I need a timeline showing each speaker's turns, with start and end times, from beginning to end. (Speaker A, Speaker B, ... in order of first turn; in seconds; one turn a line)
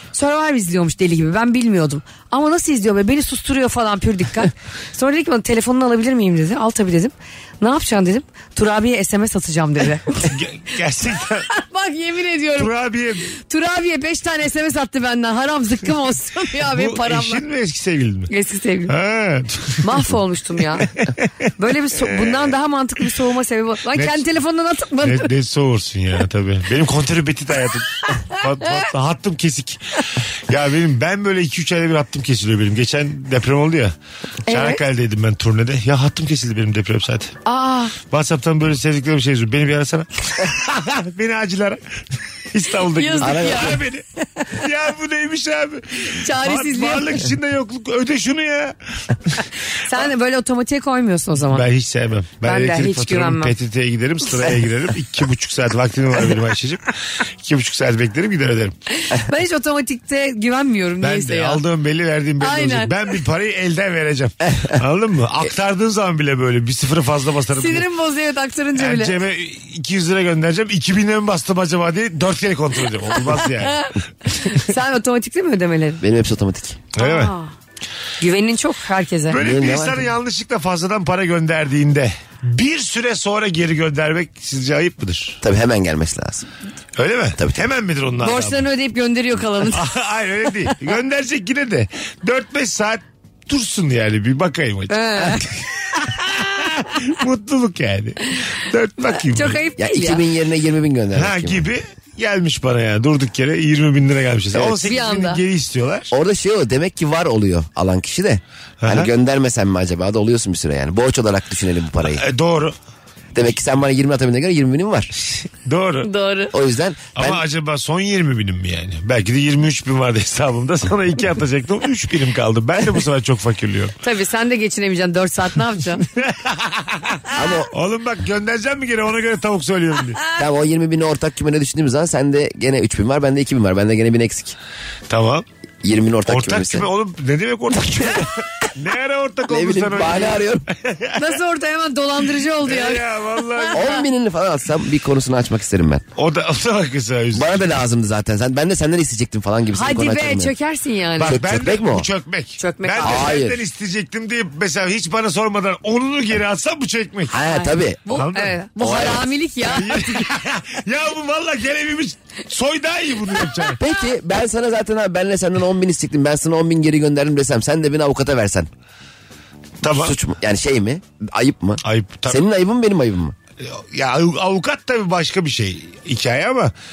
Speaker A: 0.1-10.3
Speaker B: 10.2-11.5
Speaker A: 11.5-12.7
Speaker B: 12.6-13.2
Speaker A: 13.3-17.4
Speaker B: 16.7-18.3
Speaker A: 18.3-18.9
Speaker B: 18.9-19.9
Speaker A: 19.8-20.9
Speaker B: 20.8-21.2
Speaker A: 21.6-25.3
Speaker B: 22.0-22.5
Speaker B: 23.9-24.2
Speaker B: 25.0-33.9
Speaker A: 34.5-34.8
Speaker B: 34.5-37.3
Speaker A: 37.5-38.0
Speaker B: 38.0-41.8
Speaker B: 42.5-48.7
Speaker A: 42.9-43.8
Speaker C: 43.2-43.8
Speaker A: 46.0-47.1
Speaker A: 49.8-51.6
Speaker B: 51.5-58.7
Speaker A: 52.4-53.5
Speaker A: 59.0-61.6
Speaker B: 61.0-67.9
Speaker A: 62.4-63.1
Speaker A: 67.5-69.2
Speaker B: 68.8-73.9
Speaker A: 73.1-76.0
Speaker C: 76.0-76.8
Speaker B: 76.9-77.3
Speaker A: 77.0-77.5
Speaker A: 78.2-79.4
Speaker B: 79.3-85.4
Speaker C: 79.3-80.1
Speaker C: 85.4-86.5
Speaker B: 87.0-88.7
Speaker C: 87.4-87.6
Speaker A: 88.2-89.9
Speaker B: 89.6-99.6
Speaker A: 94.9-95.5
Speaker A: 99.1-100.2
Speaker C: 99.8-101.7
Speaker B: 101.1-106.1
Speaker A: 104.8-105.4
Speaker C: 106.1-112.2
Speaker B: 108.8-109.1
Speaker B: 112.0-112.7
Speaker C: 113.3-115.1
Speaker B: 115.6-116.1
Speaker A: 116.0-116.5
Speaker C: 116.5-117.4
Speaker B: 117.1-123.9
Speaker A: 124.0-126.0
Speaker B: 126.0-130.2
Speaker C: 127.3-127.7
Speaker C: 130.3-134.6
Speaker B: 135.1-135.4
Speaker C: 135.8-136.9
Speaker B: 136.3-141.3
Speaker C: 139.5-140.7
Speaker A: 141.2-143.0
Speaker B: 142.6-143.9
Speaker A: 143.6-144.0
Speaker C: 143.7-146.0
Speaker B: 146.2-147.7
Speaker C: 147.3-150.5
Speaker A: 149.7-151.4
Speaker B: 151.2-157.3
Speaker C: 151.2-152.1
Speaker A: 152.6-153.3
Speaker C: 153.0-153.6
Speaker C: 157.3-158.2
Speaker A: 157.5-160.2
Speaker B: 158.1-158.6
Speaker C: 158.8-159.2
Speaker B: 159.6-163.8
Speaker C: 163.8-168.7
Speaker B: 169.8-170.2
Speaker C: 169.8-173.3
Speaker B: 171.8-172.4
Speaker B: 173.6-176.7